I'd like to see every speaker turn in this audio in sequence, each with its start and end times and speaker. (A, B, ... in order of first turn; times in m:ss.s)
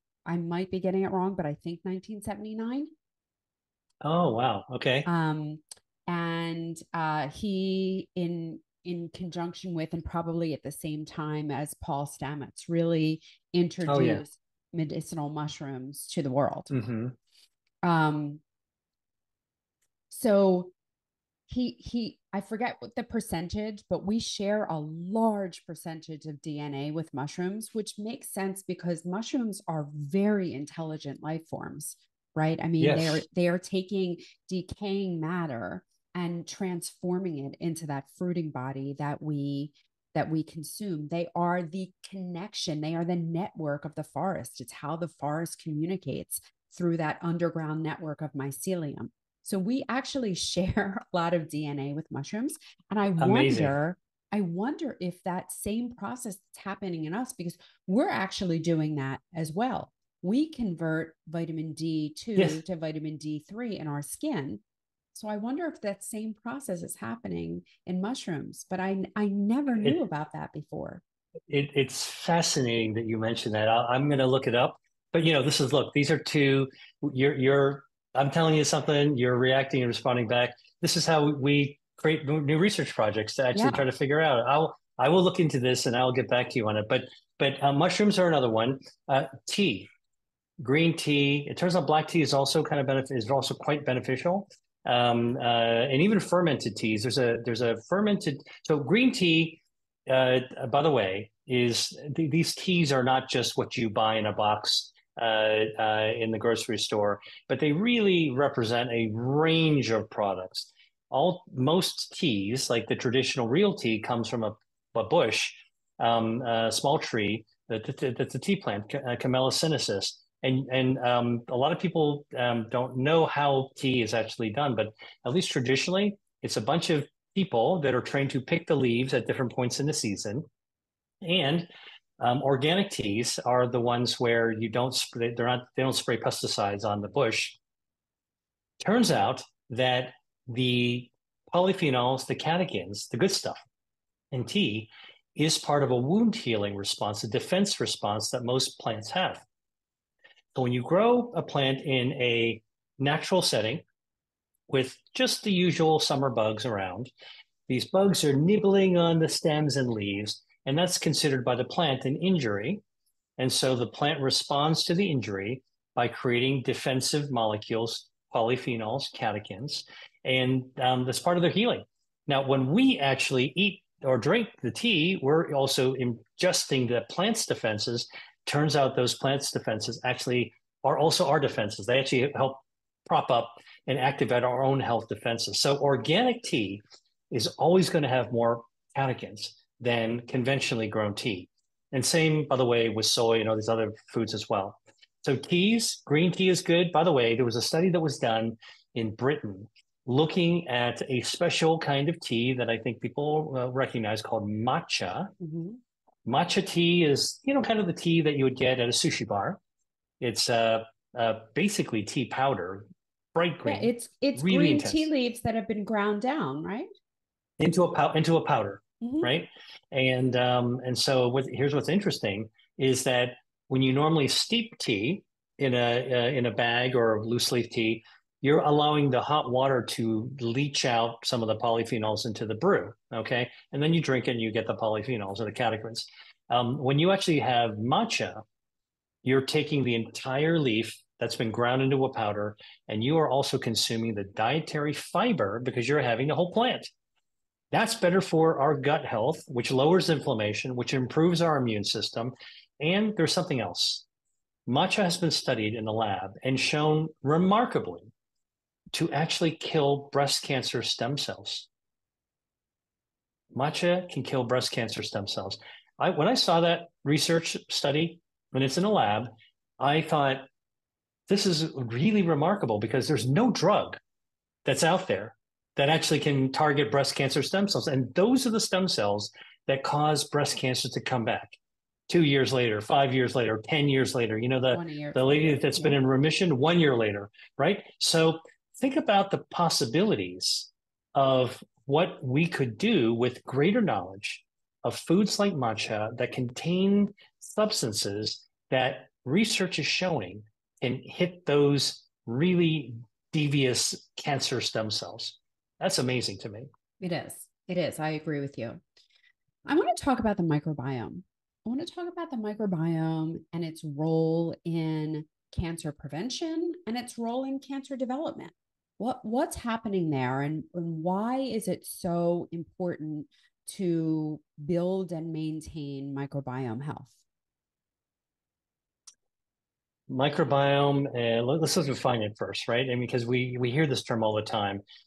0:00.2-0:02.9 A
0:04.0-0:05.1 B
0:05.0-0:16.7 A
0:13.9-0:14.2 B
0:16.7-0:17.1 B
0:17.8-0:18.4 A
0:20.1-0:20.7 A
0:21.5-1:04.6 A
0:32.8-0:33.2 B
0:53.2-0:53.7 B
1:02.4-1:02.6 B
1:05.1-1:11.0 A
1:11.5-1:29.9 B
1:23.5-1:23.8 A
1:30.6-2:10.4 B
2:11.2-2:11.7 B
2:12.2-2:17.6 B
2:18.8-2:23.6 B
2:24.3-2:29.4 B
2:30.5-2:33.8 B
2:34.7-2:37.1 B
2:37.7-2:42.8 B
2:43.4-3:25.3 B
3:25.4-3:25.8 A
3:26.2-3:29.6 B
3:30.2-3:35.1 B
3:33.6-3:36.9 A
3:37.6-3:58.4 B
3:39.0-3:39.3 A
3:59.2-4:06.9 B
4:07.7-4:14.0 B
4:14.7-4:18.1 B
4:18.9-4:21.7 B
4:23.5-4:30.4 B
4:31.3-4:34.0 B
4:34.6-5:06.7 B
4:44.7-4:46.0 A
5:07.0-5:08.8 A
5:09.6-5:27.2 A
5:30.1-5:34.8 B